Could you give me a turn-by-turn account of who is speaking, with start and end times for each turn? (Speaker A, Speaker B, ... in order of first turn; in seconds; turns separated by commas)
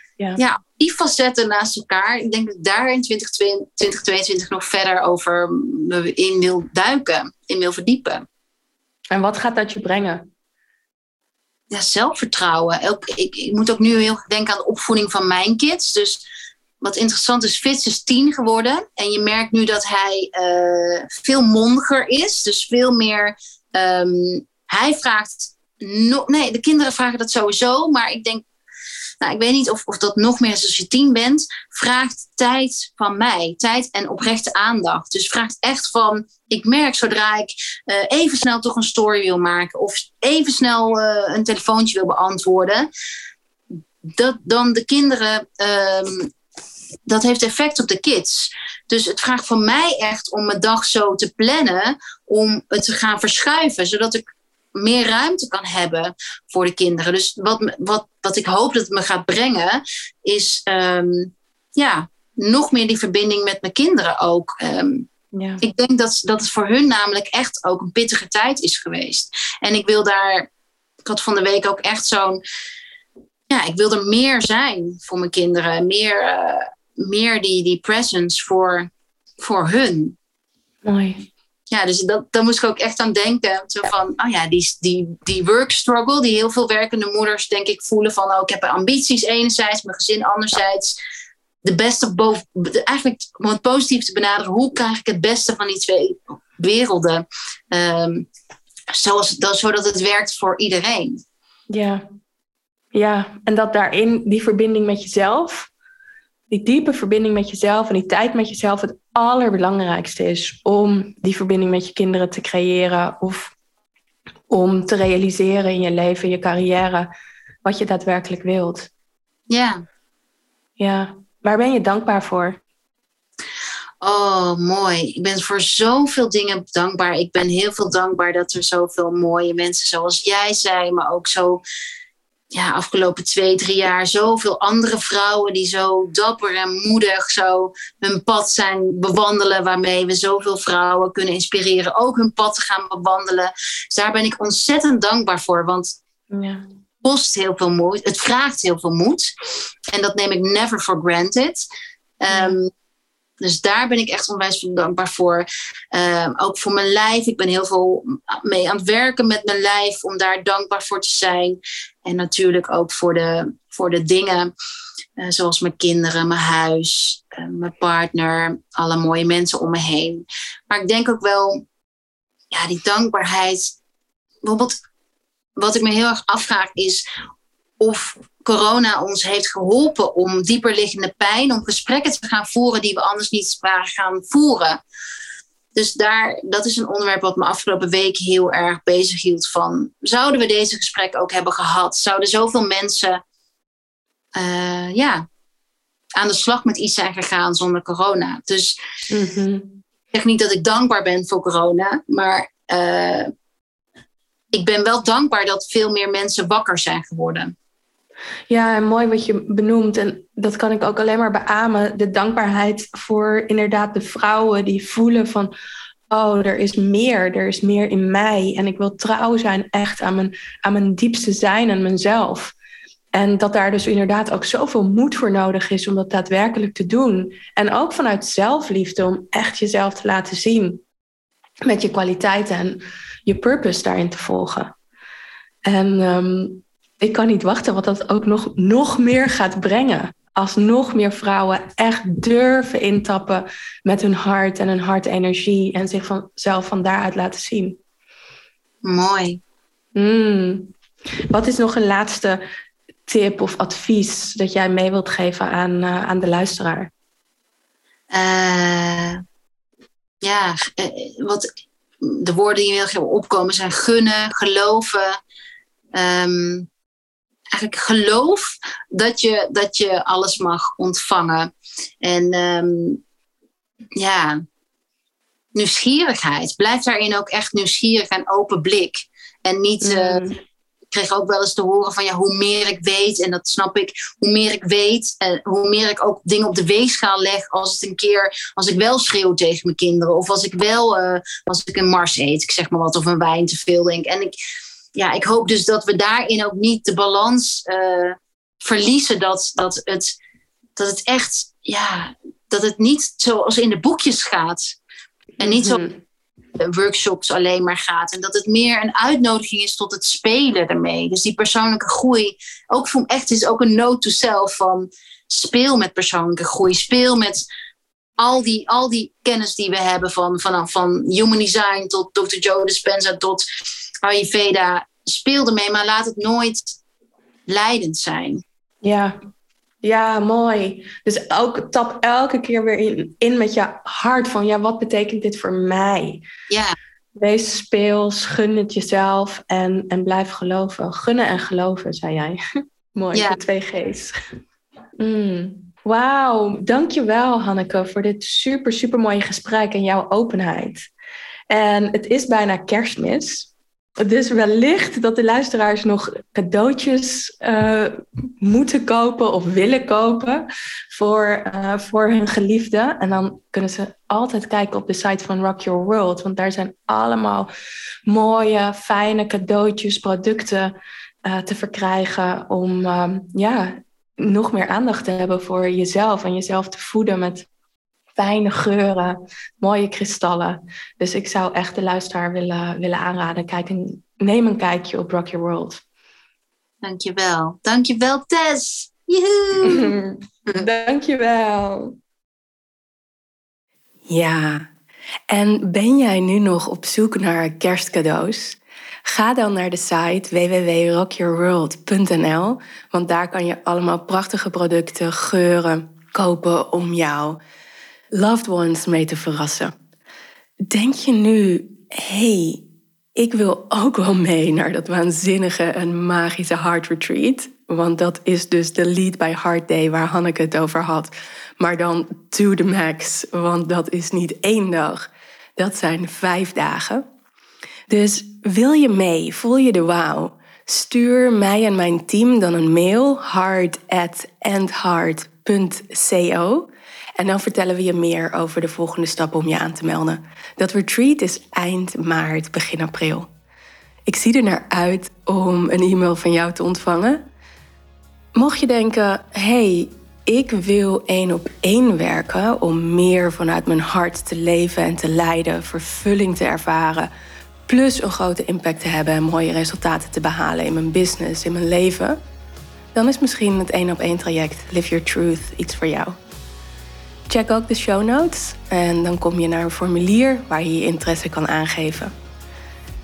Speaker A: 0.4-8.2, Speaker B: 9.1-10.2, Speaker A: 11.7-16.2, Speaker A: 16.8-28.4, Speaker A: 29.2-42.9, Speaker A: 44.0-46.3, Speaker A: 47.1-54.2, Speaker A: 54.8-65.1, Speaker B: 65.3-65.6, Speaker A: 65.6-70.5, Speaker A: 71.0-72.4, Speaker A: 73.5-78.9, Speaker A: 79.4-80.2, Speaker B: 80.8-81.2, Speaker A: 81.7-91.0, Speaker A: 91.6-98.3, Speaker A: 98.9-101.2, Speaker B: 101.7-102.0, Speaker B: 102.9-105.7, Speaker B: 106.5-113.5, Speaker B: 114.5-117.1, Speaker B: 117.7-118.9, Speaker A: 119.5-119.8, Speaker B: 120.8-122.6, Speaker A: 124.0-131.6, Speaker A: 132.5-146.0, Speaker B: 146.3-146.6, Speaker A: 147.0-149.3, Speaker A: 149.9-151.7, Speaker A: 152.2-152.7, Speaker B: 152.3-152.6, Speaker A: 153.4-164.5, Speaker A: 165.2-171.7, Speaker A: 172.5-173.8, Speaker A: 174.4-174.8, Speaker A: 175.6-177.0, Speaker A: 177.8-184.8, Speaker A: 185.8-193.2, Speaker A: 194.4-195.2, Speaker A: 196.2-198.7, Speaker B: 199.1-199.8, Speaker A: 200.1-203.3, Speaker A: 204.5-207.6, Speaker B: 208.5-215.5, Speaker B: 216.1-222.6, Speaker B: 223.1-230.8, Speaker B: 231.7-234.8, Speaker B: 235.7-247.8, Speaker A: 248.8-249.4, Speaker B: 250.0-250.7, Speaker B: 251.3-252.4, Speaker B: 253.1-256.9, Speaker A: 258.1-259.2, Speaker A: 260.2-261.5, Speaker A: 262.0-265.2, Speaker A: 265.9-266.7, Speaker A: 267.5-273.0, Speaker A: 274.0-274.4, Speaker A: 275.5-280.2, Speaker B: 279.8-280.4, Speaker A: 280.9-294.3, Speaker A: 295.0-300.1, Speaker A: 300.8-304.8, Speaker A: 305.4-305.8, Speaker B: 305.4-306.0, Speaker A: 306.6-317.5, Speaker A: 318.2-323.4, Speaker A: 324.0-326.8, Speaker A: 327.5-328.4, Speaker B: 328.8-329.2, Speaker B: 329.8-336.2, Speaker A: 336.5-336.8, Speaker B: 337.2-342.4, Speaker B: 342.9-344.1, Speaker B: 345.0-350.9, Speaker B: 351.5-353.5, Speaker B: 354.0-367.5, Speaker B: 368.1-377.5, Speaker B: 378.2-385.8, Speaker A: 386.8-389.9, Speaker B: 389.6-391.9, Speaker C: 394.1-394.6, Speaker C: 395.3-407.4, Speaker C: 408.1-409.7, Speaker C: 410.7-412.6, Speaker C: 413.2-425.0, Speaker C: 425.6-427.0, Speaker C: 427.9-436.7, Speaker C: 437.2-443.3, Speaker C: 444.1-447.2, Speaker C: 448.4-457.1, Speaker C: 457.7-462.2, Speaker C: 462.9-466.2, Speaker C: 467.3-472.1